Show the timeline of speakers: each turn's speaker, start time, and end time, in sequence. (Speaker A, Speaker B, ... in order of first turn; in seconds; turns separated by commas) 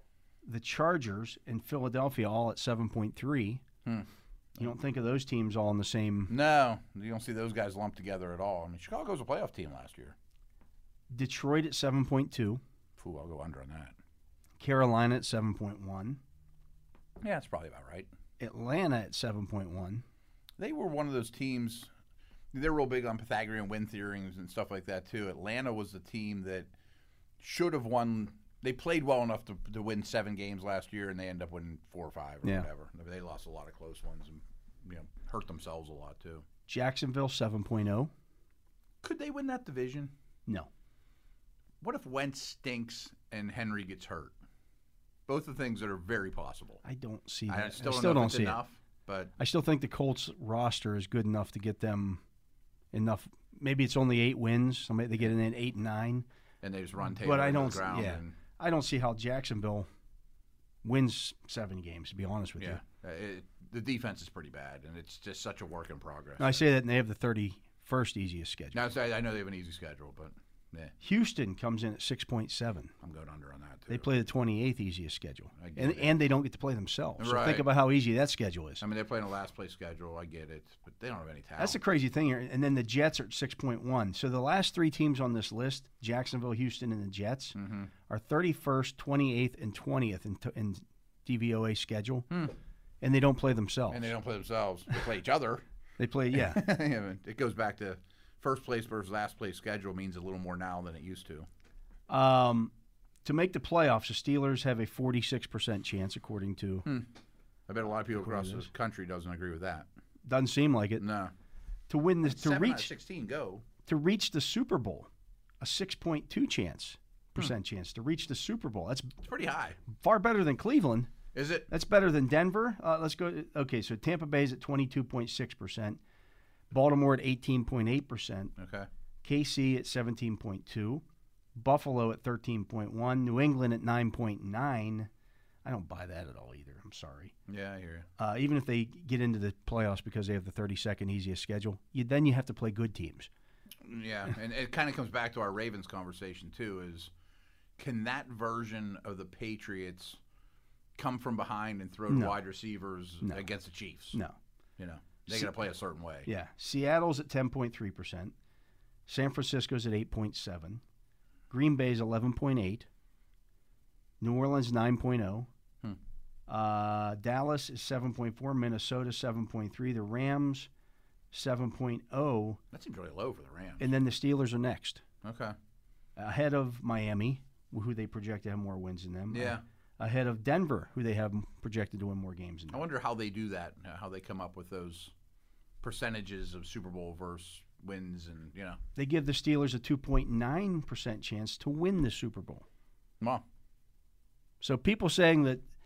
Speaker A: 0.4-3.6, Speaker A: 4.6-6.3, Speaker B: 6.3-10.2, Speaker A: 11.1-12.6, Speaker B: 13.0-13.9, Speaker A: 14.6-16.2, Speaker B: 17.2-18.1, Speaker A: 18.4-20.0, Speaker B: 20.6-21.9, Speaker B: 22.5-26.7, Speaker B: 27.4-36.5, Speaker A: 36.7-38.1, Speaker B: 39.0-40.1, Speaker B: 41.8-44.3, Speaker B: 45.3-46.8, Speaker A: 46.8-48.6, Speaker B: 47.5-49.3, Speaker A: 49.4-52.2, Speaker A: 52.9-56.3, Speaker B: 56.6-58.4, Speaker A: 57.0-59.9, Speaker A: 60.8-62.8, Speaker B: 62.6-66.7, Speaker A: 66.4-68.8, Speaker B: 68.7-70.9, Speaker A: 71.0-72.9, Speaker B: 73.0-74.1, Speaker A: 73.9-78.8, Speaker B: 75.6-76.1, Speaker B: 77.2-77.7, Speaker B: 78.8-81.8, Speaker A: 81.6-87.6, Speaker B: 87.5-87.9, Speaker A: 88.1-92.3, Speaker A: 93.0-94.1, Speaker B: 93.9-95.6, Speaker A: 96.0-96.7, Speaker B: 96.3-101.5, Speaker A: 102.1-102.7, Speaker A: 103.2-106.9, Speaker B: 107.7-109.9, Speaker A: 108.2-108.7, Speaker A: 110.2-111.0, Speaker B: 111.0-111.3, Speaker A: 111.9-112.9, Speaker B: 112.2-113.7, Speaker A: 113.9-115.1, Speaker A: 115.6-119.1, Speaker B: 119.2-119.8, Speaker A: 119.9-121.1, Speaker B: 121.3-121.7, Speaker A: 121.7-126.0, Speaker A: 126.7-128.6, Speaker B: 128.6-128.9, Speaker A: 129.2-131.0, Speaker A: 131.6-135.1, Speaker A: 135.6-137.3, Speaker B: 137.5-138.1, Speaker A: 138.2-143.3, Speaker B: 143.8-147.1, Speaker B: 147.8-150.2, Speaker B: 151.0-154.2, Speaker A: 152.1-152.4, Speaker B: 154.8-156.3, Speaker A: 156.3-158.3, Speaker A: 159.1-160.8, Speaker A: 161.5-162.9, Speaker A: 164.2-165.5, Speaker A: 166.5-170.7, Speaker A: 171.3-172.6, Speaker B: 172.7-173.9, Speaker A: 173.8-175.0, Speaker B: 175.2-175.6, Speaker A: 176.2-182.8, Speaker B: 179.3-179.6, Speaker B: 182.7-185.1, Speaker B: 185.8-188.8, Speaker A: 189.0-192.7, Speaker A: 194.6-195.6